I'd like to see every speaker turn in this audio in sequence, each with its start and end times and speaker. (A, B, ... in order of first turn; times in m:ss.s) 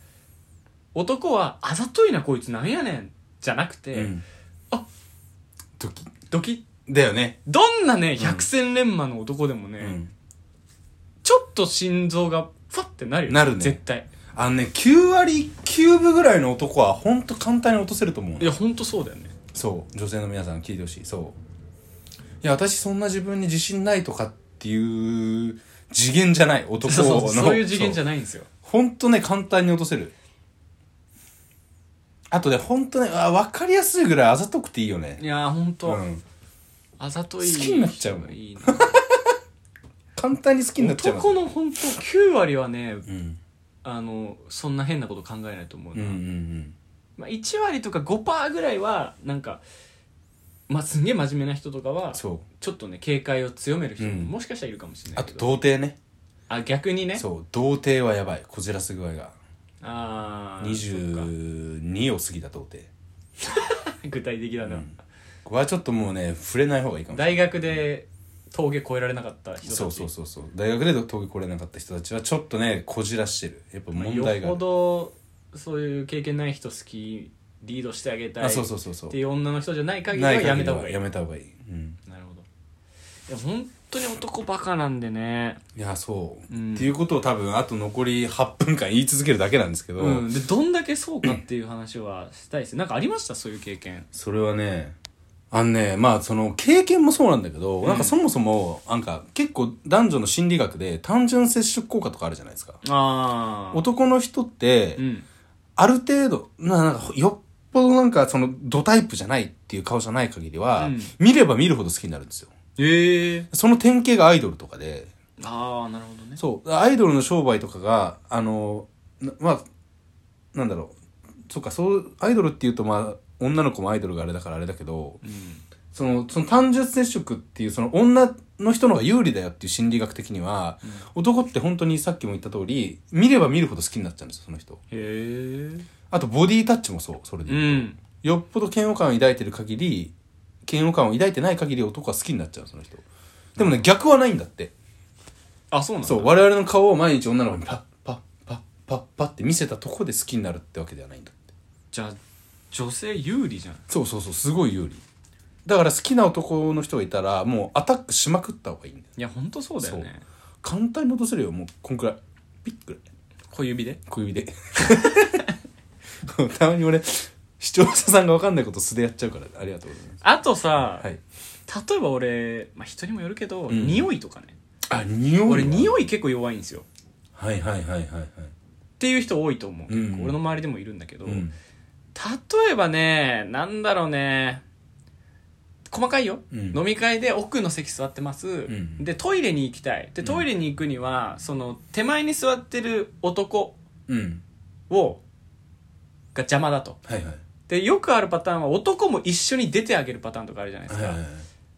0:00.9-0:04.1 A
0:03.9-0:04.2 B
0:05.8-0:06.1 B
0:06.3-0:06.6 A
0:06.9-0:07.4 B
0:07.4-0:10.0 A
0:08.2-0:08.5 B
0:09.8-0:10.1 B
0:11.2-0:14.1 A
0:13.3-0:13.8 B
0:14.3-0:18.6 B
0:18.4-0:19.3 A
0:19.5-0:21.4 B
0:22.4-0:28.0 B
0:26.8-0:28.5 A
0:28.6-0:30.1 B
0:32.3-0:35.2 B
0:35.2-0:36.0 A
0:35.8-0:36.2 B
0:37.0-0:39.0 A
0:37.4-0:39.3 B
0:40.2-0:41.4 B
0:40.8-0:43.1 A
0:43.1-0:43.4 B
0:43.8-0:46.2 A
0:45.9-0:46.7 B
0:47.2-0:49.6 A
0:50.7-0:55.6 A
0:52.1-0:52.4 B
0:54.0-0:54.3 B
0:55.2-0:56.0 B
0:56.5-0:57.2 A
0:57.2-0:59.3 B
0:59.8-1:01.3 A
1:00.6-1:02.9 B
1:03.4-1:04.9 A
1:04.6-1:04.9 B
1:05.4-1:07.8 B
1:07.1-1:10.1 A
1:09.6-1:14.6 B
1:13.9-1:21.1 A
1:18.4-1:19.2 B
1:20.1-1:22.0 B
1:22.1-1:22.4 A
1:23.3-1:25.6 A
1:25.7-1:30.3 B
1:26.5-1:26.9 A
1:30.0-1:34.1 A
1:34.1-1:35.0 B
1:35.5-1:42.8 B
1:37.8-1:38.1 A
1:42.8-1:43.8 A
1:43.7-1:45.0 B
1:45.0-1:45.2 A
1:45.8-1:52.5 B
1:50.8-1:51.1 A
1:52.8-1:53.5 A
1:53.5-1:55.1 B
1:55.4-1:56.4 A
1:56.4-1:59.6 B
2:00.5-2:01.0 B
2:01.5-2:05.2 B
2:05.2-2:05.6 A
2:05.9-2:14.8 B
2:14.9-2:15.9 A
2:16.1-2:20.1 B
2:17.5-2:18.0 A
2:20.6-2:23.0 B
2:23.6-2:24.7 B
2:25.7-2:26.4 A
2:26.0-2:31.4 B
2:31.9-2:32.2 A
2:32.7-2:33.8 A
2:33.9-2:35.0 B
2:35.6-2:39.1 B
2:39.2-2:40.2 A
2:39.8-2:40.1 B
2:40.6-2:43.0 B
2:43.5-2:44.0 A
2:44.1-2:45.4 B
2:46.2-2:50.2 B
2:50.2-2:51.1 A
2:50.8-2:51.2 B
2:51.7-2:54.5 A
2:53.7-2:54.1 B
2:54.9-2:56.0 B
2:55.4-2:56.8 A
2:57.4-2:58.5 B
2:59.0-3:01.5 A
2:59.9-3:00.4 B
3:01.2-3:01.5 B
3:02.1-3:04.6 A
3:05.9-3:13.8 A
3:06.5-3:06.8 B
3:08.7-3:09.0 B
3:14.1-3:14.4 B
3:14.9-3:15.2 A
3:16.3-3:17.0 A
3:17.1-3:17.4 B
3:17.7-3:21.2 A
3:20.9-3:21.4 B